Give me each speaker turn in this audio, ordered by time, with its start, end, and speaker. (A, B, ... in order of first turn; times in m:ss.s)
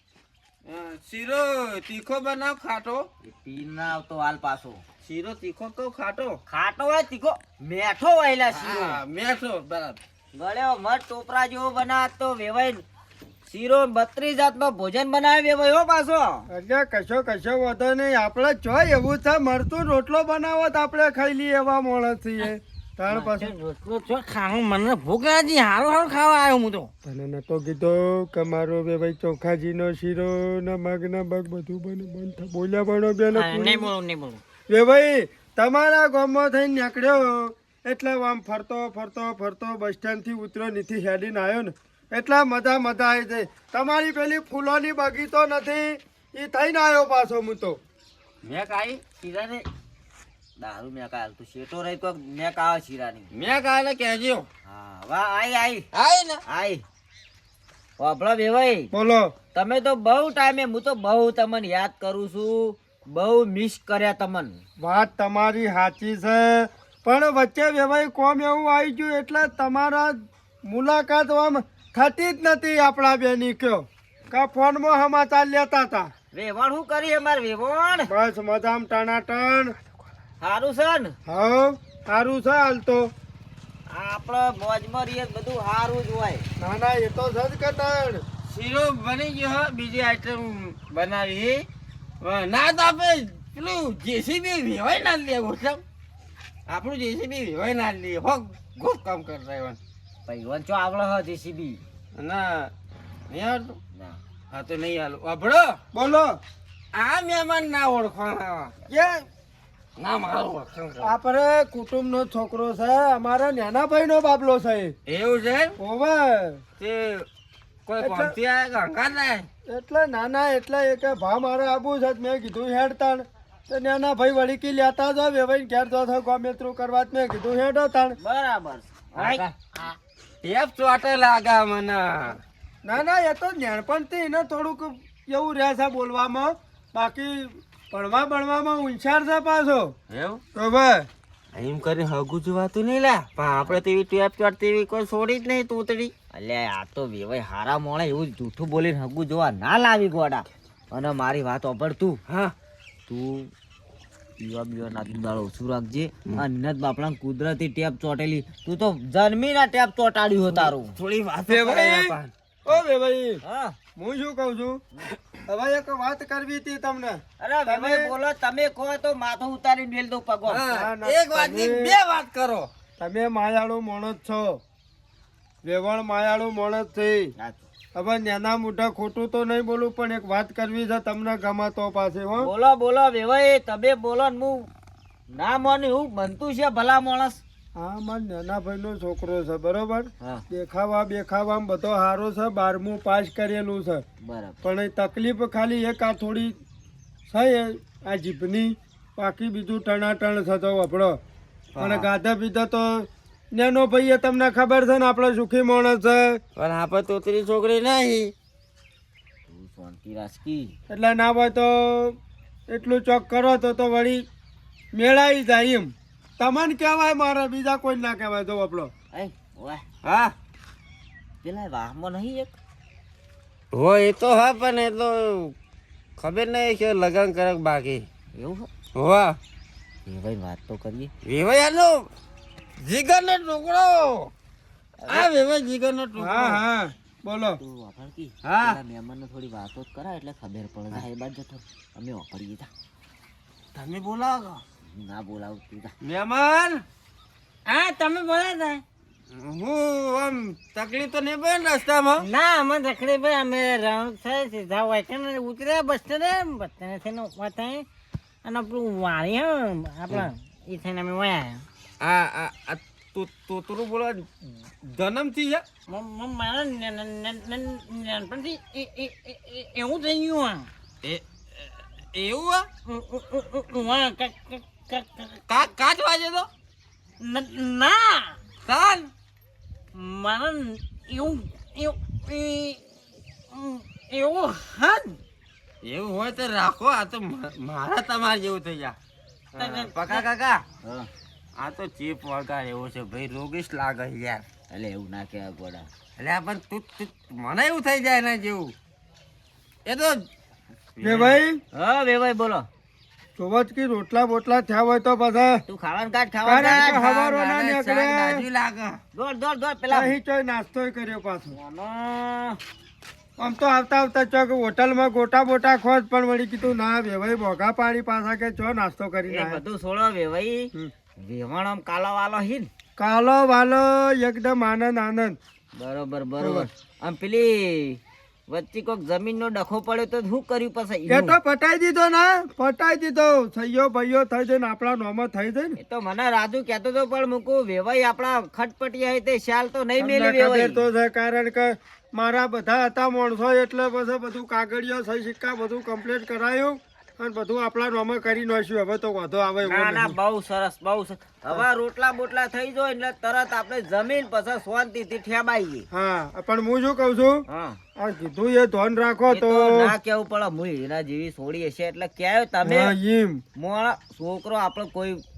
0:00.6-0:03.0 A
0:03.3-0:04.8 B
0:05.0-0:06.4 A
0:06.5-0:09.0 B
0:08.5-0:10.0 A
0:10.3-0:12.8 B
0:13.4-0:16.5 B
0:16.5-0:23.5 C
0:23.1-0:26.9 D
0:27.0-0:33.9 C
0:33.3-0:34.4 D
0:34.7-0:47.8 C
0:48.4-0:49.0 A
0:49.2-0:49.7 B
0:50.6-0:53.3 B
0:53.3-0:54.5 A
0:54.6-0:55.9 B
0:55.9-0:56.4 A
0:56.5-0:56.8 B
0:58.0-0:58.9 B
0:58.9-0:59.3 C
0:59.5-1:04.6 B
1:04.8-1:10.2 C
1:10.7-1:16.1 C
1:16.3-1:18.1 B
1:18.1-1:19.8 C
1:20.4-1:21.1 B
1:21.3-1:23.1 C
1:23.9-1:26.4 B
1:26.6-1:28.2 C
1:28.5-1:31.6 A
1:32.2-1:35.8 A
1:36.7-1:39.8 A
1:40.3-1:41.8 B
1:42.2-1:42.7 A
1:43.3-1:43.8 A
1:43.9-1:44.2 B
1:44.5-1:45.8 A
1:45.9-1:46.4 C
1:46.9-1:48.7 A
1:48.9-1:49.2 C
1:50.0-1:51.1 A
1:51.0-1:55.0 C
1:55.1-1:55.7 A
1:55.8-1:56.6 C
1:56.8-1:57.3 A
1:57.9-1:59.5 A
1:58.0-1:58.4 C
1:59.7-2:08.2 C
2:08.2-2:09.4 B
2:09.2-2:09.5 A
2:10.4-2:12.4 A
2:12.8-2:19.9 C
2:20.1-2:20.4 A
2:20.6-2:21.1 C
2:21.5-2:26.1 A
2:26.3-2:32.2 B
2:32.3-2:32.5 A
2:33.1-2:33.5 B
2:34.4-2:40.9 B
2:40.5-2:42.3 A
2:41.5-2:43.4 C
2:43.4-2:43.8 B
2:44.0-2:44.8 C
2:45.5-2:48.1 C
2:47.4-2:50.6 B
2:50.5-2:52.7 A
2:50.7-2:52.0 C
2:53.0-2:54.6 C
2:55.6-2:57.3 C
2:57.9-3:02.5 C
3:02.4-3:04.7 B
3:05.3-3:07.4 B
3:07.8-3:14.0 C
3:14.2-3:14.6 B
3:14.6-3:16.6 C
3:17.3-3:21.2 C
3:21.7-3:22.1 A
3:21.8-3:26.4 C
3:26.6-3:28.3 A
3:29.5-3:30.8 B
3:30.9-3:32.2 C
3:32.7-3:34.2 C
3:34.9-3:38.9 C
3:39.1-3:39.8 B
3:40.0-3:40.3 A
3:41.4-3:42.5 B
3:43.7-3:45.5 A
3:46.2-3:48.1 A
3:48.4-3:48.7 B
3:49.0-3:49.4 A
3:50.1-3:51.1 B
3:51.2-3:52.1 A
3:52.8-3:54.3 A
3:55.0-3:55.3 B
3:55.1-3:56.6 A
3:56.2-3:57.6 C
3:57.6-4:02.7 B
3:58.4-3:58.8 A
4:03.7-4:04.6 A
4:04.9-4:05.9 B
4:06.0-4:06.8 A
4:07.7-4:08.8 D
4:09.3-4:12.3 A
4:12.2-4:17.8 D
4:18.4-4:21.6 D
4:22.0-4:24.3 A
4:24.8-4:25.6 A
4:25.9-4:30.7 D
4:31.0-4:32.7 A
4:32.9-4:35.4 D
4:35.5-4:36.5 A
4:37.2-4:38.4 D
4:38.7-4:39.1 A
4:40.0-4:42.8 D
4:43.5-4:45.2 D
4:45.8-4:49.0 A
4:49.5-4:50.6 A
4:49.6-4:50.3 D
4:50.8-4:51.1 B
4:51.6-4:54.4 A
4:54.7-4:55.9 B
4:56.2-4:58.7 A
4:59.9-5:00.2 A
5:01.0-5:01.4 A
5:01.0-5:01.6 C
5:01.7-5:02.6 B
5:03.4-5:05.6 C
5:05.7-5:07.0 B
5:06.4-5:08.4 C
5:06.6-5:09.0 A
5:09.2-5:10.1 B
5:09.9-5:11.6 C
5:11.5-5:12.6 B
5:13.4-5:19.6 C
5:19.3-5:22.7 B
5:23.0-5:25.4 C
5:25.8-5:31.4 B
5:26.4-5:26.7 C
5:31.1-5:35.8 C
5:35.8-5:40.8 B
5:40.0-5:50.2 C
5:49.6-5:55.9 B
5:55.9-5:57.4 C
5:57.5-5:57.8 B
5:58.0-5:59.9 C
5:59.3-6:03.0 B
6:02.6-6:03.4 C
6:03.6-6:05.2 B